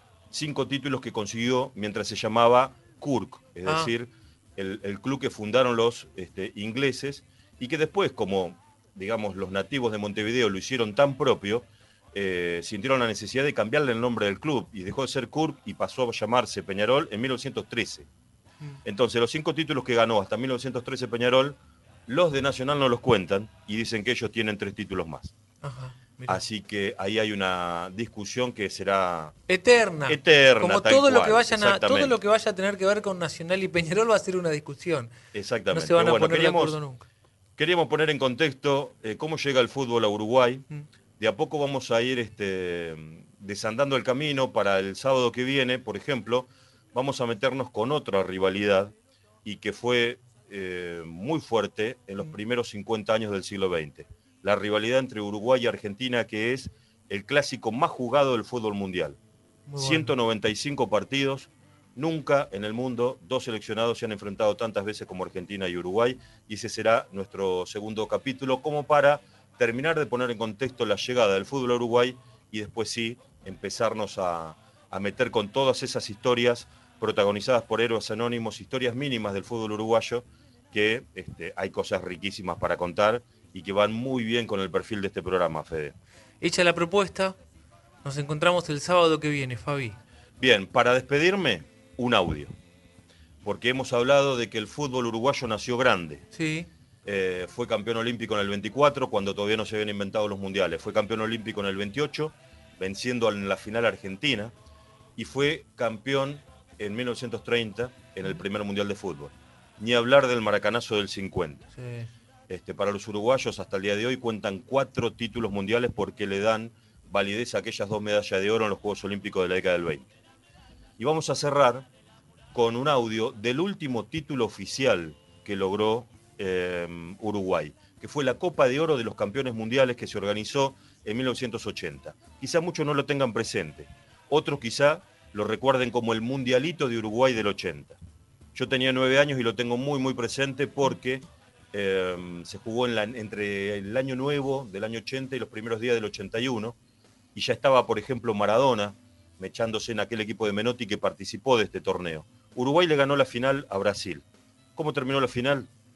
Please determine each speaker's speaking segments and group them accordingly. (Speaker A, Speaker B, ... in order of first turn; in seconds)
Speaker A: 0.3-18.1, 18.9-25.3, 26.3-29.4, 30.1-32.1, 35.3-36.8, 37.6-40.6, 41.2-59.2, 59.8-86.0, 90.4-92.5, 93.4-96.2, 97.0-104.5, 105.2-111.7, 112.5-120.1, 121.0-121.9, 122.5-138.0, 138.6-146.8, 147.3-154.2, 154.8-155.7
Speaker B: 25.6-26.4, 29.5-35.1, 35.7-37.1, 59.7-60.1, 86.4-87.4, 88.0-90.0, 96.3-96.7, 111.8-112.1